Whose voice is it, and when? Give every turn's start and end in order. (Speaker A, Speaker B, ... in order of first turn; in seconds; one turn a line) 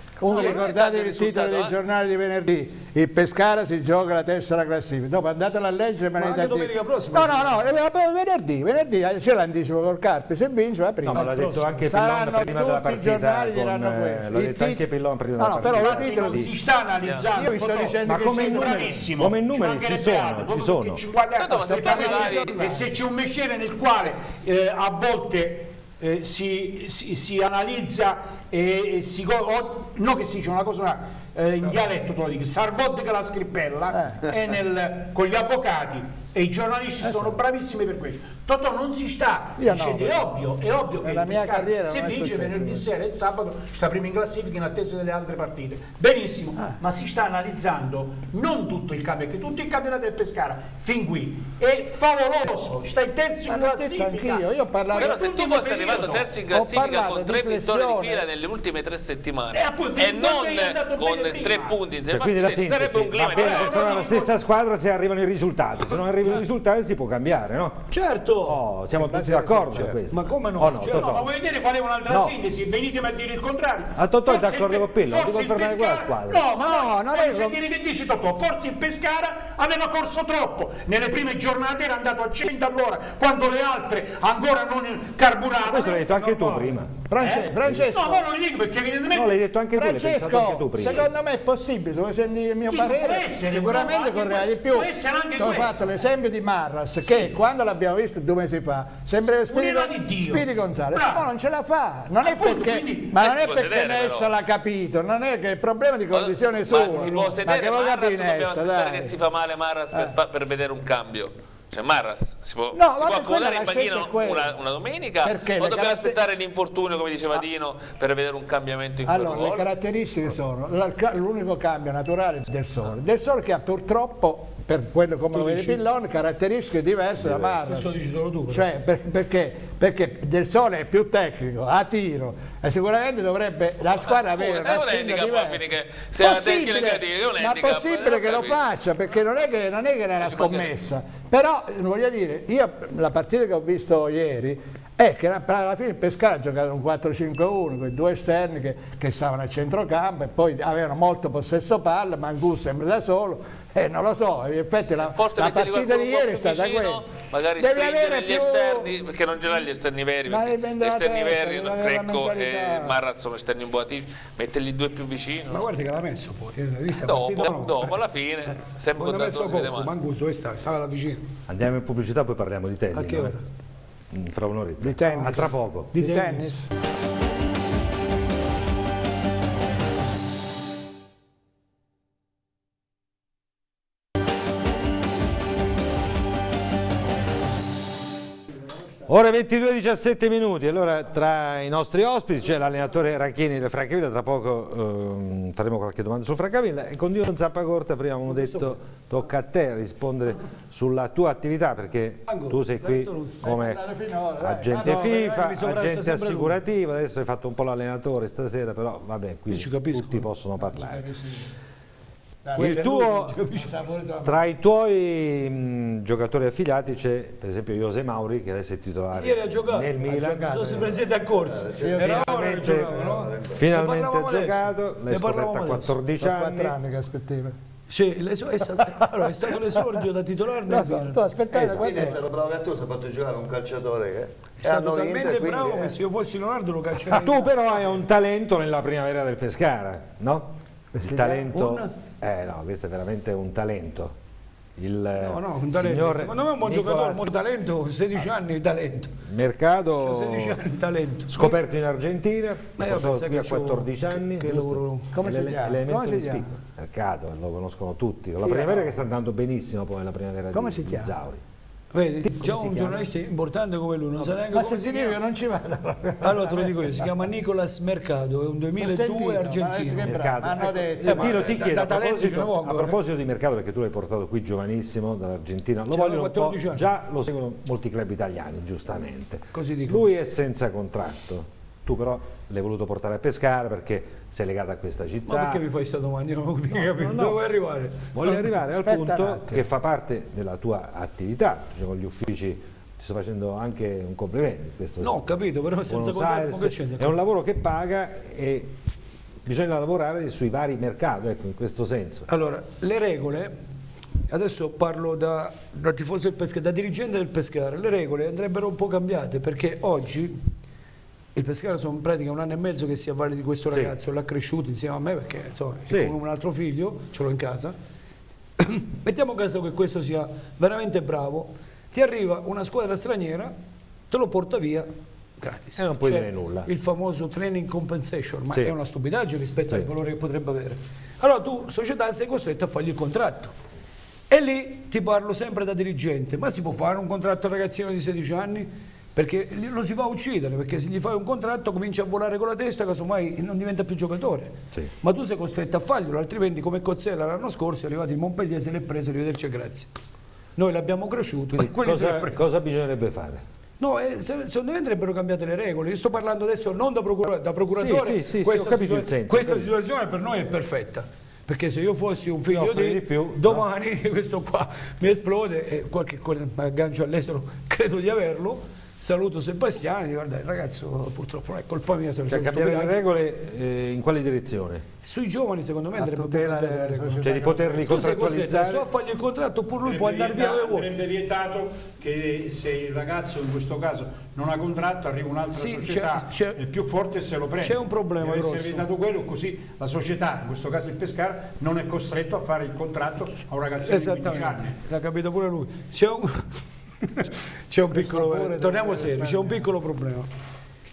Speaker A: 0.2-14.9
Speaker B: 0.3-1.8
Speaker C: 6.2-7.6
Speaker D: 11.0-16.5
Speaker A: 15.4-16.5
Speaker E: 15.7-56.3
Speaker A: 17.3-18.9
Speaker D: 18.0-21.0
Speaker B: 21.4-22.7
Speaker A: 21.6-22.8
Speaker A: 33.9-34.2
Speaker A: 37.0-37.4
Speaker A: 39.6-40.4
Speaker A: 41.0-42.9
Speaker A: 53.5-55.4
Speaker B: 54.9-64.1
Speaker A: 56.5-58.3
Speaker E: 59.5-61.8
Speaker D: 62.1-67.9
Speaker E: 63.1-64.3
Speaker C: 67.9-68.6
Speaker D: 68.5-71.3
Speaker A: 69.0-70.0
Speaker C: 70.1-71.2
Speaker E: 70.8-89.4
Speaker D: 72.1-72.3
Speaker D: 74.0-76.4
Speaker A: 76.5-77.6
Speaker D: 85.7-87.0
Speaker A: 87.1-88.3
Speaker D: 89.1-91.1
Speaker A: 89.7-109.2
Speaker E: 92.7-95.8
Speaker E: 99.5-101.3
Speaker E: 102.2-103.2
Speaker B: 103.2-104.3
Speaker B: 106.1-119.7
Speaker A: 112.7-114.5
Speaker A: 115.2-116.2
Speaker A: 119.0-135.7
Speaker C: 125.3-125.8
Speaker D: 127.2-127.6
Speaker C: 127.7-128.7
Speaker B: 133.8-139.3
Speaker A: 136.2-158.9
Speaker B: 140.2-140.7
Speaker B: 155.1-165.7
Speaker A: 160.3-163.0
Speaker C: 165.5-168.0
Speaker B: 166.9-169.9
Speaker C: 168.5-171.3
Speaker D: 171.5-173.4
Speaker C: 172.9-173.4
Speaker D: 174.1-176.0
Speaker A: 174.8-176.7
Speaker C: 175.9-176.6
Speaker D: 189.1-203.8
Speaker C: 198.3-198.8
Speaker C: 202.3-203.4
Speaker A: 203.4-205.6
Speaker D: 204.4-211.0
Speaker C: 204.9-206.6
Speaker C: 209.5-210.3
Speaker A: 210.6-211.4
Speaker A: 212.5-214.4
Speaker C: 212.5-213.7
Speaker D: 212.6-213.4
Speaker D: 214.2-220.8
Speaker C: 219.1-226.0
Speaker A: 220.0-221.2
Speaker F: 221.5-222.1
Speaker A: 221.8-222.6
Speaker D: 222.0-226.8
Speaker F: 222.9-223.6
Speaker A: 226.2-227.6
Speaker C: 227.9-232.0
Speaker A: 228.6-230.1
Speaker A: 230.7-232.2
Speaker F: 231.8-236.0
Speaker C: 234.6-237.9
Speaker D: 237.1-244.2
Speaker A: 240.9-241.6
Speaker C: 241.3-241.9
Speaker D: 244.8-247.4
Speaker C: 245.2-249.2
Speaker D: 249.3-250.6
Speaker C: 250.0-251.6
Speaker D: 251.3-261.4
Speaker C: 252.8-255.1
Speaker A: 255.1-256.5
Speaker A: 258.4-259.0
Speaker A: 260.5-261.1
Speaker C: 261.9-265.2
Speaker D: 262.4-263.0
Speaker A: 264.2-267.1
Speaker C: 266.2-270.1
Speaker A: 268.8-271.7
Speaker D: 270.0-285.6
Speaker C: 271.0-273.0
Speaker C: 275.9-276.9
Speaker C: 279.5-280.1
Speaker C: 285.3-288.2
Speaker D: 286.7-287.4
Speaker D: 288.1-295.3
Speaker A: 288.2-289.6
Speaker C: 295.0-297.2
Speaker D: 295.9-298.8
Speaker D: 299.4-302.3
Speaker C: 302.3-303.6
Speaker C: 304.3-310.4
Speaker C: 311.4-317.8
Speaker D: 313.7-314.0
Speaker D: 315.9-316.2
Speaker C: 318.6-323.5
Speaker C: 324.1-333.5
Speaker D: 325.8-326.7
Speaker C: 334.3-349.9
Speaker C: 350.6-352.5
Speaker D: 351.5-353.4
Speaker C: 353.8-373.0
Speaker D: 357.7-359.7
Speaker D: 362.5-363.7
Speaker D: 372.3-374.9
Speaker C: 375.0-377.3
Speaker A: 375.9-378.0
Speaker D: 377.2-378.9
Speaker C: 377.8-380.9
Speaker E: 379.8-394.8
Speaker C: 385.5-386.6
Speaker C: 387.6-388.9
Speaker C: 393.8-396.6
Speaker C: 397.2-400.3
Speaker A: 397.9-399.7